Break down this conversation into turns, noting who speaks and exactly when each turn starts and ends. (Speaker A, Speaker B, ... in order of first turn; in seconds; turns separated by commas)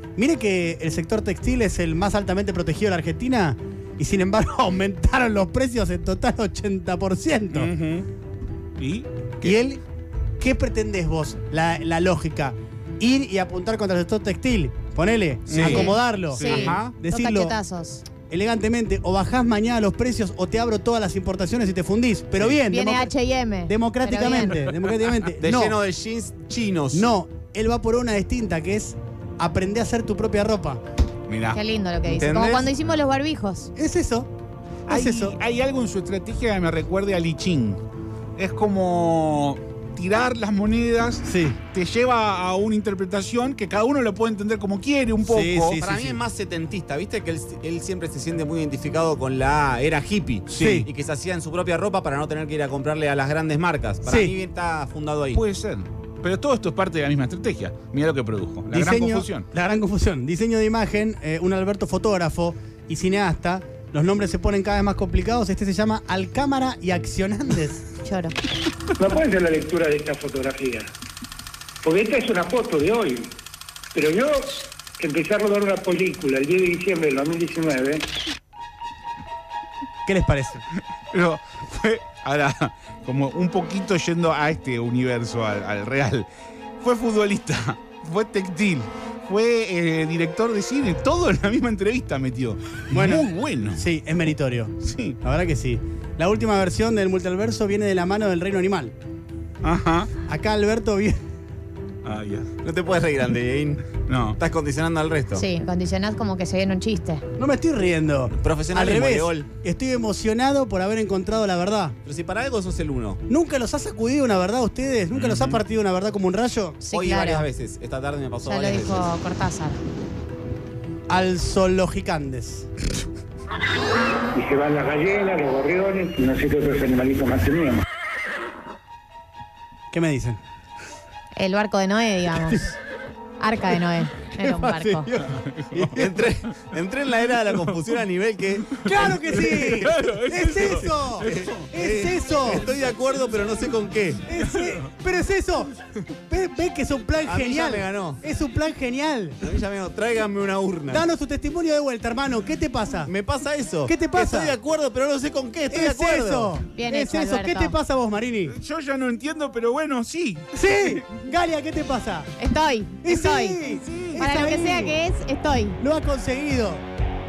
Speaker A: 0.2-7.7, Speaker B: 7.5-8.1, Speaker B: 8.8-9.6, Speaker A: 9.4-9.8, Speaker A: 10.4-17.5, Speaker B: 15.5-16.8, Speaker C: 15.5-15.9, Speaker D: 15.7-18.1, Speaker C: 16.5-16.9, Speaker A: 18.2-23.1, Speaker D: 22.6-24.6, Speaker A: 23.6-25.8, Speaker C: 25.4-27.1, Speaker A: 26.9-30.8, Speaker B: 31.3-31.6, Speaker D: 31.5-33.7, Speaker C: 32.0-32.7, Speaker A: 33.8-34.3, Speaker A: 34.9-35.4, Speaker B: 34.9-37.8, Speaker B: 38.4-45.8, Speaker A: 41.2-41.6, Speaker A: 45.2-46.2, Speaker C: 45.8-55.4, Speaker A: 50.5-50.9, Speaker A: 54.0-54.3, Speaker B: 55.3-59.5, Speaker A: 58.7-67.9, Speaker D: 68.0-68.3, Speaker E: 69.0-70.9, Speaker E: 71.8-73.3, Speaker E: 73.9-78.1, Speaker A: 80.0-80.6, Speaker B: 81.1-86.3, Speaker B: 86.8-93.8, Speaker A: 92.9-98.9, Speaker B: 94.8-95.2, Speaker B: 99.6-100.1, Speaker A: 100.2-101.2, Speaker B: 102.0-102.5, Speaker C: 102.6-105.4, Speaker B: 104.0-104.4, Speaker D: 105.3-107.2, Speaker A: 107.4-112.0, Speaker C: 108.3-109.5, Speaker C: 112.0-113.2, Speaker A: 113.3-116.8, Speaker B: 115.2-115.6, Speaker D: 116.8-117.5, Speaker C: 116.9-119.1, Speaker D: 118.4-119.8, Speaker A: 121.1-122.7, Speaker E: 124.3-127.8, Speaker A: 129.9-130.4, Speaker D: 131.3-132.8, Speaker D: 133.4-135.2, Speaker A: 134.4-136.0, Speaker B: 135.2-136.0, Speaker C: 135.8-144.3, Speaker A: 138.8-142.7, Speaker B: 138.8-141.7, Speaker A: 144.2-149.4, Speaker C: 147.2-148.2, Speaker C: 149.4-151.0, Speaker A: 150.9-153.1, Speaker C: 153.1-156.6, Speaker A: 153.8-154.6, Speaker A: 155.7-158.5, Speaker D: 156.7-157.7, Speaker B: 158.4-161.0, Speaker A: 160.5-162.3, Speaker D: 162.4-163.6, Speaker A: 163.0-165.0, Speaker B: 163.8-164.2, Speaker D: 164.2-165.8, Speaker A: 165.8-166.8